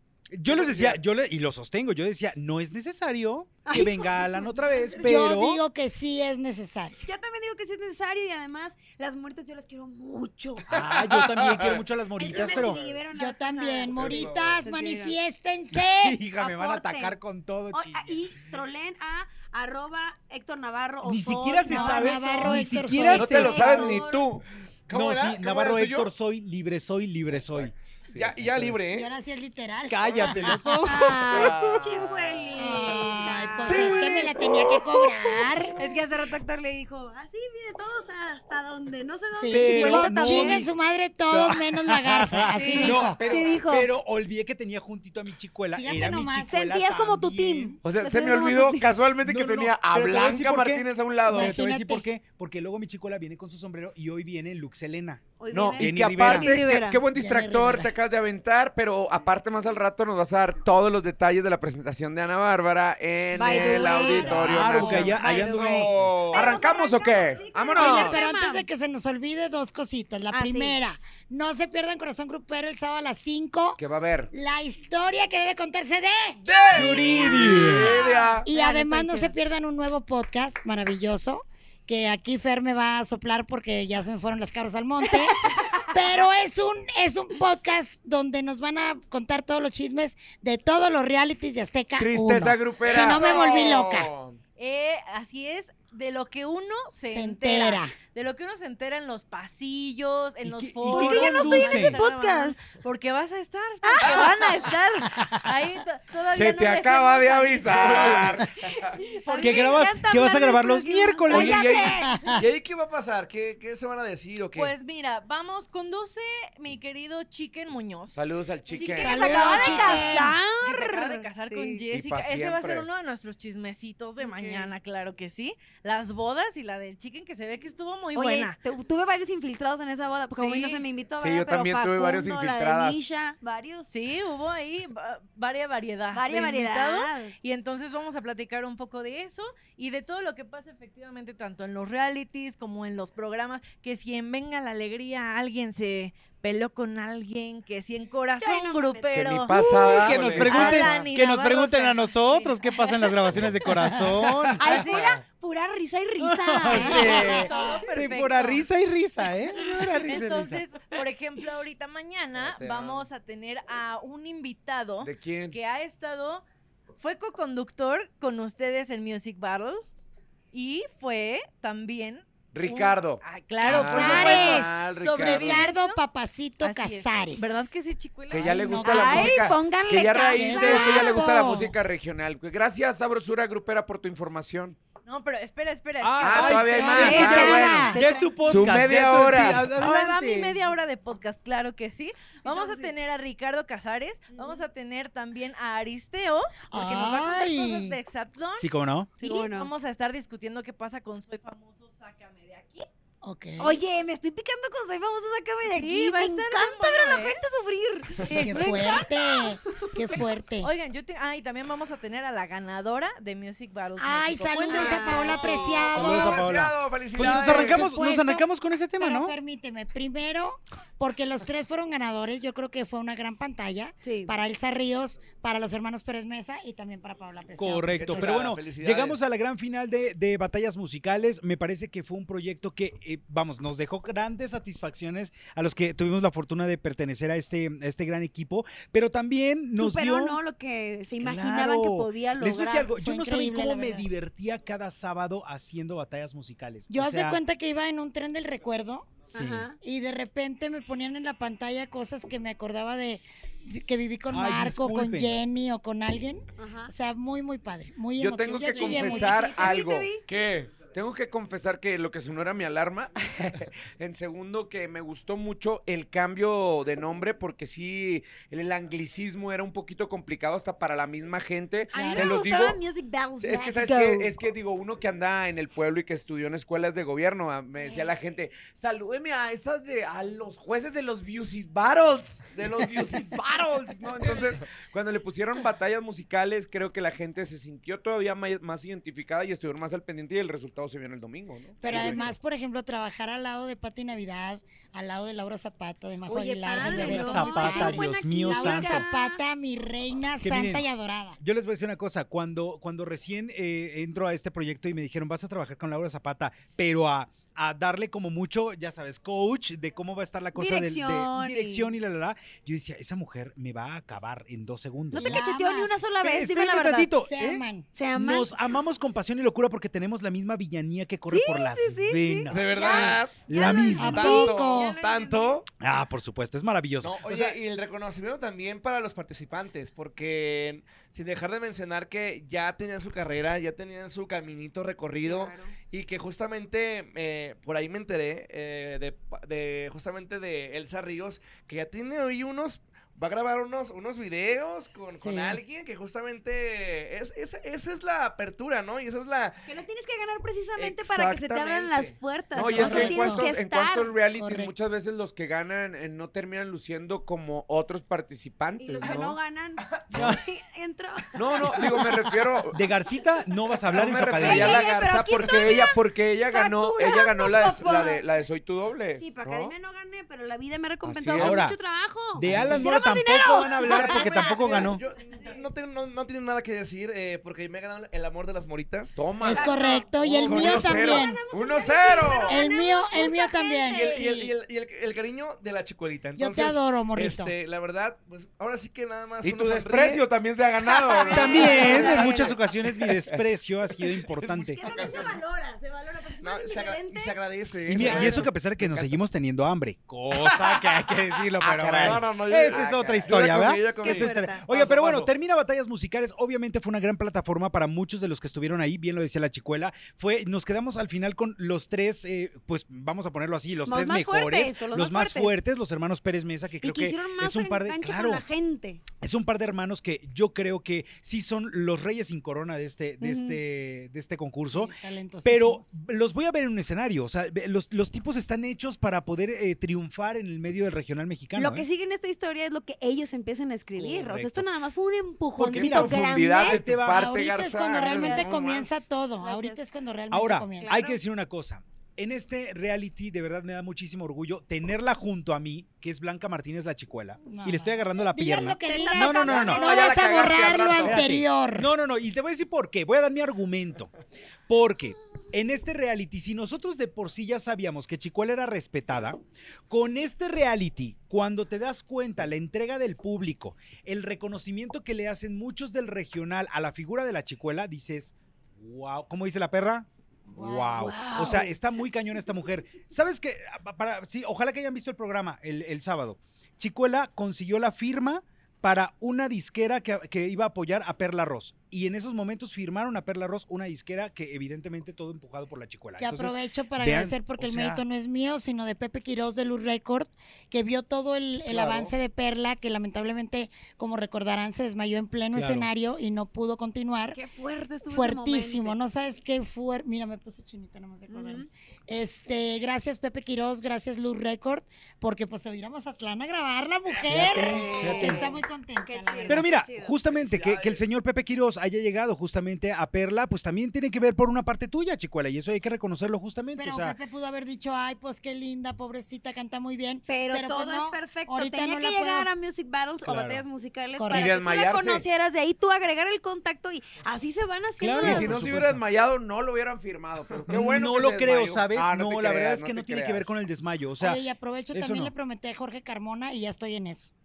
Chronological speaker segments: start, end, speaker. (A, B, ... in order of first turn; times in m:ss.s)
0:00.3-0:05.6 A
0:00.4-0:01.0 B
0:03.6-0:05.1 C
0:05.0-0:07.0 D
0:07.0-0:10.7 C
0:10.7-0:12.8 A
0:10.8-0:11.8 B
0:12.2-0:15.2 C
0:12.4-0:13.0 B
0:13.1-0:16.2 D
0:13.9-0:14.6 B
0:15.7-0:18.1 A
0:16.3-0:17.2 C
0:17.7-0:24.3 C
0:21.0-0:23.9 A
0:21.6-0:23.7 D
0:23.1-0:24.4 E
0:24.9-0:26.1 B
0:24.9-0:27.7 A
0:27.5-0:28.8 E
0:28.1-0:29.1 B
0:28.9-0:31.5 D
0:29.9-0:31.1 A
0:30.8-0:34.1 C
0:31.3-0:32.3 B
0:32.5-0:35.8 D
0:33.7-0:35.3 B
0:35.8-0:40.6 C
0:39.3-0:43.2 D
0:39.5-0:40.7 A
0:41.3-0:47.8 A
0:42.5-0:43.9 C
0:42.8-0:43.6 E
0:45.7-0:46.4 D
0:46.4-0:48.9 C
0:47.8-0:51.6 E
0:49.2-0:55.2 A
0:51.3-0:52.0 D
0:55.4-0:57.0 C
0:55.5-1:08.2 E
0:55.8-0:56.5 A
0:57.1-0:57.9 D
1:03.3-1:08.6 C
1:03.5-1:06.0 A
1:05.2-1:06.6 B
1:07.7-1:13.8 D
1:10.3-1:10.8 C
1:13.8-1:14.3 E
1:14.3-1:16.4 D
1:16.4-1:17.8 B
1:16.7-1:19.4 C
1:16.7-1:18.0 A
1:17.1-1:18.5 E
1:18.4-1:34.1 D
1:25.1-1:26.0 C
1:32.0-1:33.3 E
1:32.8-1:34.4 B
1:33.0-1:33.7 F
1:34.6-1:48.4 F
1:37.1-1:37.9 D
1:40.4-1:42.0 A
1:40.9-1:42.6 C
1:43.8-1:44.3 C
1:44.0-1:44.3 B
1:46.3-1:48.9 E
1:47.6-1:48.4 B
1:48.7-1:52.4 C
1:49.2-1:49.8 F
1:49.4-1:51.9 A
1:51.2-1:54.7 B
1:52.0-1:52.4 D
1:54.5-1:58.2 F
1:58.1-1:59.8 E
1:58.7-2:01.8 C
1:58.9-2:00.4 D
1:59.7-1:59.9 F
2:00.6-2:08.6 F
2:01.9-2:02.9 E
2:04.2-2:04.7 C
2:08.1-2:13.9 C
2:10.3-2:10.8 F
2:11.2-2:13.0 E
2:13.9-2:32.5 F
2:16.1-2:17.3 C
2:28.4-2:29.3 C
2:29.1-2:30.9 E
2:29.7-2:34.6 A
2:34.6-2:35.2 F
2:34.6-2:37.8 C
2:36.2-2:40.6 A
2:36.7-2:37.5 D
2:36.7-2:38.7 F
2:36.8-2:37.3 E
2:39.7-2:40.0 C
2:40.0-2:46.4 F
2:42.3-2:43.0 E
2:45.0-2:45.5 E
2:47.0-2:49.8 F
2:50.5-2:56.0 F
2:52.5-2:55.7 E
2:53.6-2:57.5 D
2:56.6-2:58.7 F
2:58.3-3:04.8 E
2:58.4-2:59.5 D
2:58.8-3:01.2 C
3:00.2-3:01.7 D
3:05.0-3:07.6 F
3:06.0-3:10.6 A
3:06.2-3:09.7 E
3:06.6-3:08.0 D
3:07.0-3:08.8 C
3:09.7-3:22.9 F
3:12.4-3:12.9 C
3:14.3-3:14.6 C
3:16.7-3:18.0 D
3:18.6-3:19.1 A
3:19.2-3:19.7 C
3:23.2-3:23.8 D
3:23.6-3:30.0 C
3:25.7-3:27.4 F
3:28.2-3:28.7 F
3:28.3-3:30.7 D
3:30.6-3:35.6 F
3:34.0-3:36.5 D
3:34.7-3:35.9 C
3:35.3-3:37.9 B
3:35.9-3:39.3 A
3:37.2-3:38.4 D
3:39.0-3:48.5 D
3:44.0-3:44.4 C
3:47.6-4:00.4 A
3:47.9-3:49.2 B
3:59.8-4:02.9 C
4:01.2-4:07.4 A
4:03.0-4:04.0 D
4:06.9-4:09.2 D
4:09.3-4:09.7 C
4:09.3-4:09.7 A
4:09.8-4:19.7 D
4:14.3-4:15.4 A
4:16.6-4:16.9 C
4:18.2-4:20.1 E
4:18.7-4:20.2 C
4:20.3-4:20.7 B
4:20.7-4:32.8 E
4:31.9-4:34.3 C
4:31.9-4:32.4 D
4:33.4-4:52.3 E
4:37.8-4:38.1 C
4:44.2-4:44.6 B
4:51.8-5:01.4 D
4:56.3-4:59.4 C
4:56.8-4:59.1 A
5:00.4-5:00.8 A
5:01.4-5:15.4 A
5:10.6-5:11.9 C
5:15.1-5:17.1 C
5:15.1-5:16.0 D
5:16.2-5:24.4 A
5:17.2-5:17.9 D
5:17.9-5:18.6 C
5:21.3-5:25.6 C
5:22.5-5:25.6 B
5:23.9-5:25.0 D
5:25.8-5:27.6 A
5:27.0-5:49.7 B
5:35.2-5:35.7 C
5:45.1-5:45.6 D
5:49.7-5:54.2 C
5:50.8-5:52.2 B
5:52.5-5:59.4 E
5:52.8-5:53.5 D
5:54.2-5:54.7 D
5:58.8-6:02.2 C
6:00.1-6:00.4 A
6:01.3-6:02.8 E
6:02.7-6:04.9 A
6:03.9-6:09.7 E
6:04.4-6:08.2 C
6:09.2-6:15.6 C
6:11.0-6:11.7 E
6:11.4-6:11.8 A
6:12.3-6:15.0 A
6:12.4-6:12.8 E
6:13.6-6:19.2 B
6:19.2-6:22.6 E
6:19.4-6:21.4 D
6:19.5-6:24.2 C
6:22.4-6:24.5 D
6:23.9-6:30.2 B
6:26.4-6:27.5 D
6:29.4-6:33.4 E
6:31.0-6:32.5 C
6:31.3-6:35.2 A
6:31.6-6:32.2 B
6:34.4-6:37.4 C
6:34.8-6:35.4 E
6:35.0-6:35.2 B
6:36.4-6:38.5 B
6:37.9-6:58.4 A
6:38.0-6:38.4 C
6:38.3-6:39.2 E
6:41.6-6:43.4 E
6:41.9-6:45.2 B
6:44.0-6:44.7 C
6:53.8-6:55.5 C
6:56.8-6:59.0 C
6:59.2-7:11.8 A
7:03.2-7:03.6 C
7:04.6-7:05.8 D
7:11.6-7:16.8 C
7:14.0-7:14.7 A
7:15.6-7:17.3 A
7:15.7-7:19.1 E
7:17.1-7:21.0 D
7:18.0-7:18.6 C
7:19.4-7:19.8 C
7:20.3-7:29.9 A
7:20.8-7:21.2 C
7:27.4-7:31.9 D
7:28.8-7:31.0 C
7:29.4-7:31.4 E
7:31.0-7:34.1 A
7:34.7-8:08.0 A
7:50.5-7:51.7 D
8:06.2-8:17.4 D
8:11.7-8:12.1 E
8:15.5-8:15.9 A
8:17.3-8:19.0 C
8:18.1-8:29.7 D
8:21.3-8:21.7 C
8:27.3-8:28.5 A
8:27.3-8:28.5 B
8:27.7-8:28.5 C
8:29.0-8:30.1 C
8:29.5-8:37.2 A
8:30.1-8:31.1 B
8:36.7-8:42.5 D
8:40.3-8:48.6 C
8:43.2-8:43.6 A
8:44.2-8:44.5 D
8:44.3-8:45.2 E
8:48.0-8:49.0 A
8:48.2-8:53.5 E
8:50.7-8:55.3 A
8:54.2-8:57.3 D